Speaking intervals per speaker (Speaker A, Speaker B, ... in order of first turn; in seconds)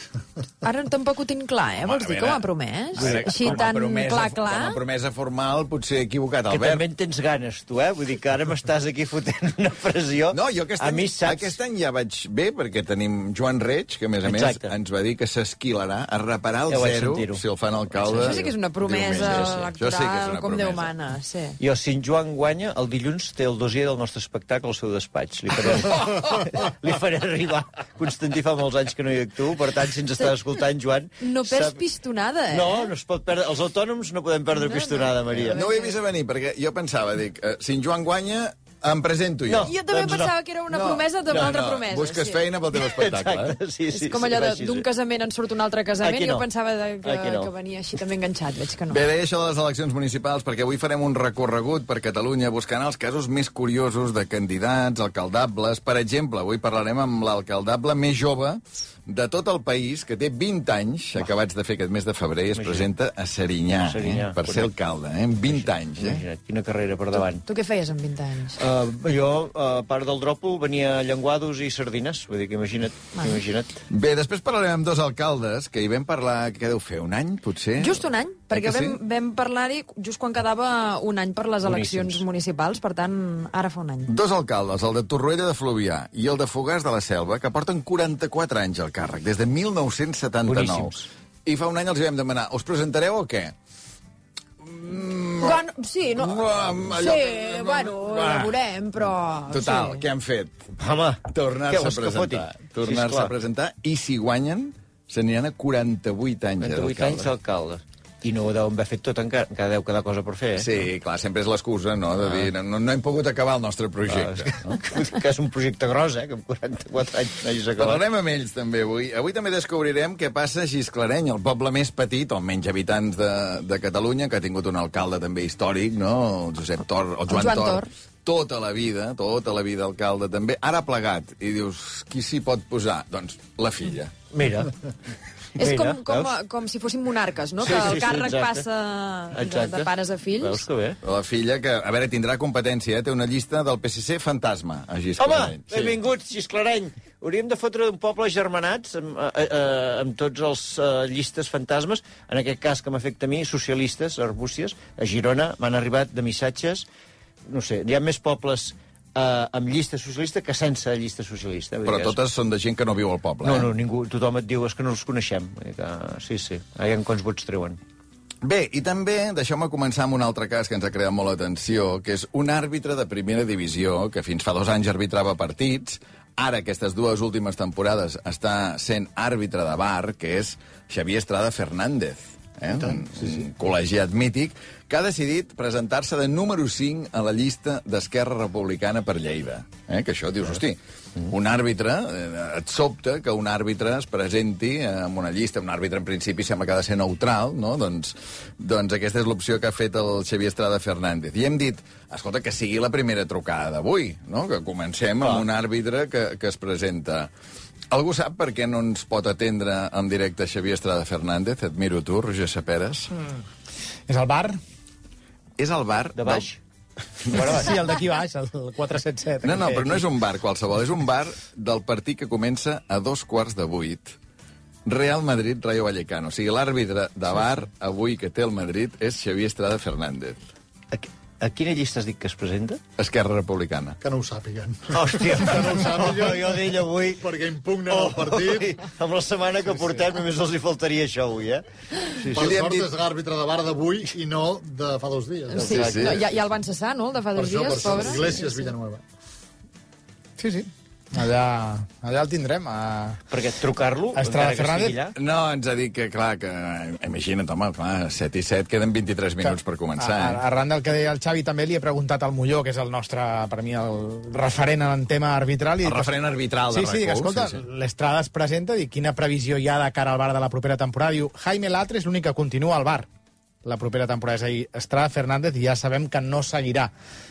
Speaker A: 0.6-4.8, 18.0-21.6, 31.2-32.9, 34.5-35.9, 39.7-42.4, 43.9-49.0, 67.5-68.6, 77.8-84.1, 95.4-100.0, 127.3-127.9, 135.6-140.6, 245.5-248.7
Speaker B: 1.8-6.8, 10.3-20.9, 35.5-39.8, 40.7-43.6, 48.9-66.2, 73.9-79.0, 84.1-93.5, 94.6-95.6, 96.2-98.5, 99.5-100.7, 101.3-107.3, 110.6-114.8, 117.8-134.1, 141.0-146.0, 161.8-163.7, 168.4-207.3, 207.9-213.1, 215.6-216.5, 219.4-224.2, 224.8-230.4, 233.0-234.0, 242.3-242.9, 245.7-246.2, 255.2-260.4, 265.8-267.6
Speaker C: 3.0-3.6, 6.5-11.6, 14.2-14.7, 16.7-17.4, 18.0-18.4, 21.6-31.8, 32.5-35.6, 39.5-40.3, 42.8-44.9, 46.0-46.5, 47.0-47.5, 62.5-62.9, 63.8-64.7, 65.5-67.4, 68.6-73.8, 81.6-82.2, 90.5-91.0, 100.8-103.3, 106.6-110.7, 114.1-118.0, 134.3-134.7, 135.6-136.3, 137.6-138.6, 139.3-141.0, 145.2-156.8, 157.5-162.2, 163.4-167.8, 216.1-216.6, 217.2-217.7, 230.9-232.8, 234.9-237.2, 237.9-241.6, 242.2-242.5, 245.5-246.2, 253.3-255.1
Speaker D: 214.1-214.6, 217.5-220.1, 250.4-253.2, 254.2-255.0, 259.4-266.1, 266.7-273.1, 273.6-276.9
Speaker E: 234.0-238.8, 242.3-245.8, 247.3-249.0